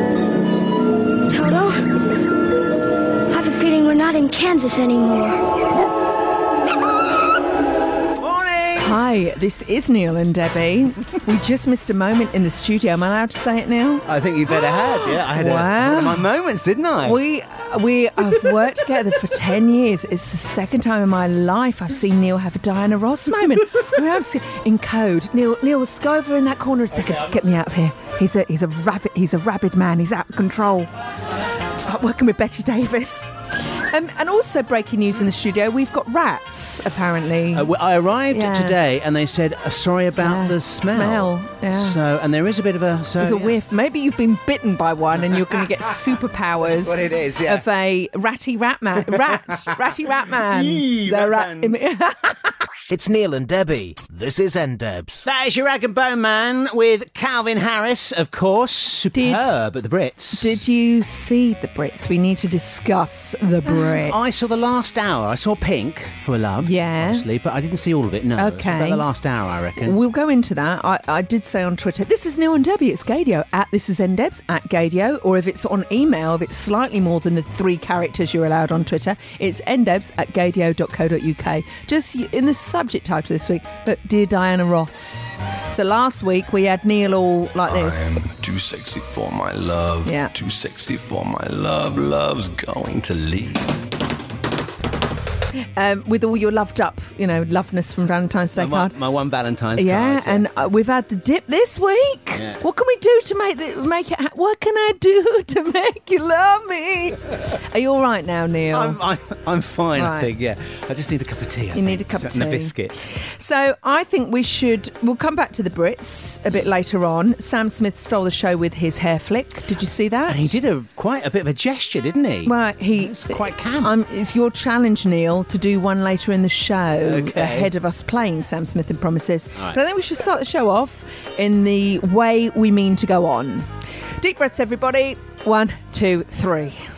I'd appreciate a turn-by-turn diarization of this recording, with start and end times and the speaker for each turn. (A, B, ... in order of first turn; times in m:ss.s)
0:01.3-0:01.8 A
0:03.3-0:05.4 A
0:08.2-0:08.9 B
0:08.8-0:16.2 C
0:14.0-0:17.2 B
0:17.0-0:30.9 C
0:31.7-0:37.7 C
0:37.5-0:43.6 B
0:38.3-0:38.8 C
0:40.2-0:42.0 C
0:43.2-0:52.4 C
0:46.6-0:47.6 B
0:50.4-0:51.8 B
0:52.9-0:55.2 D
0:55.2-1:00.6 B
0:59.1-0:59.6 C
1:00.3-1:04.6 C
1:03.6-1:10.0 B
1:06.6-1:07.2 C
1:08.4-1:09.0 C
1:09.8-1:28.2 C
1:27.7-1:33.7 E
1:30.0-1:30.3 C
1:35.7-1:38.9 C
1:38.5-1:40.4 B
1:39.8-1:49.0 C
1:42.3-1:42.6 B
1:48.7-1:53.0 B
1:50.0-1:50.3 C
1:51.7-2:00.5 C
2:00.3-2:03.9 B
2:02.4-2:13.7 C
2:07.0-2:07.7 B
2:14.2-2:16.8 C